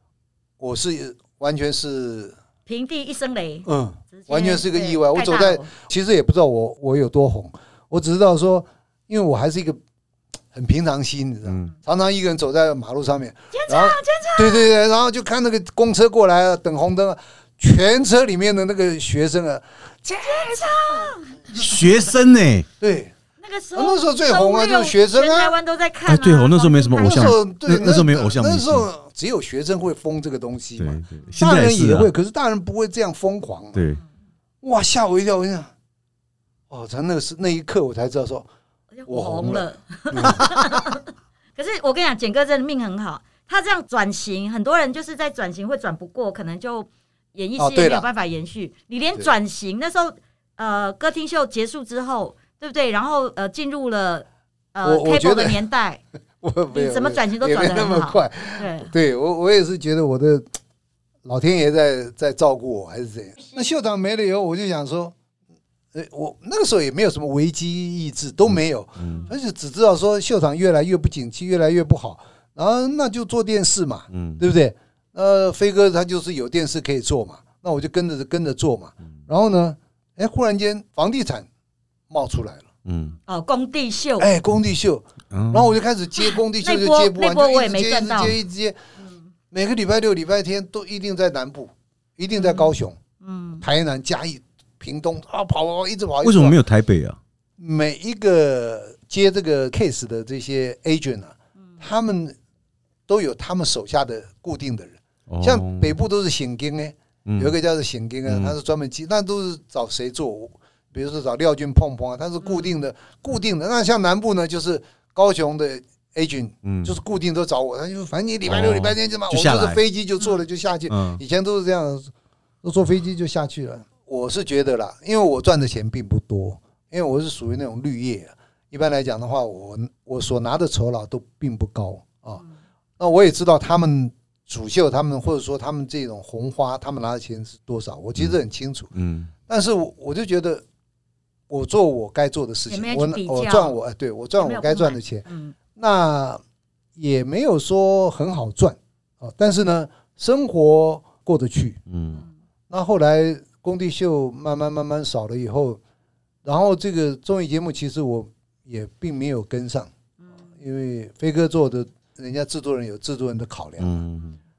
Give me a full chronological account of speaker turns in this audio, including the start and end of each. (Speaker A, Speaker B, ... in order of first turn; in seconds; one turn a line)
Speaker A: 0.6-2.4
Speaker B: 2.7-5.7
Speaker A: 3.6-9.8
Speaker A: 10.5-21.1
Speaker B: 13.5-14.7
Speaker B: 20.2-21.6
Speaker C: 21.5-22.7
Speaker A: 22.8-23.1
Speaker B: 23.4-27.4
Speaker A: 23.7-25.6
Speaker C: 26.1-28.9
Speaker A: 27.0-33.9
Speaker C: 30.8-32.1
Speaker C: 33.7-34.0
Speaker A: 34.6-35.7
Speaker A: 36.7-38.5
Speaker B: 39.0-41.0
Speaker A: 39.1-40.8
Speaker B: 41.5-56.0
Speaker A: 47.6-48.1
Speaker A: 54.8-55.6
Speaker A: 56.4-60.5
Speaker B: 56.7-58.9
Speaker A: 61.2-65.1
Speaker A: 65.9-81.5
Speaker C: 69.0-69.3
Speaker C: 74.1-74.4
Speaker A: 82.1-82.7
Speaker C: 82.8-83.2
Speaker B: 83.2-84.3
Speaker A: 84.2-88.8
Speaker C: 85.3-85.7
Speaker B: 86.3-88.4
Speaker A: 89.5-93.0
Speaker B: 92.4-93.6
Speaker A: 93.6-96.6
Speaker C: 96.2-97.2
Speaker A: 97.6-102.3
Speaker A: 103.1-122.1
Speaker C: 105.3-106.0
Speaker C: 107.2-107.5
Speaker C: 108.3-108.5
Speaker B: 112.5-112.7
Speaker C: 116.6-116.9
Speaker C: 118.5-119.8
Speaker C: 120.9-121.2
Speaker A: 122.6-132.4
Speaker A: 133.0-138.9
Speaker C: 138.9-139.3
Speaker A: 139.5-140.6
Speaker A: 141.5-146.4
Speaker B: 142.7-143.8
Speaker B: 144.4-145.5
Speaker A: 146.9-151.8
Speaker C: 151.9-152.2
Speaker A: 152.7-155.8
Speaker A: 156.4-159.9
Speaker A: 160.5-164.0
Speaker C: 163.8-164.3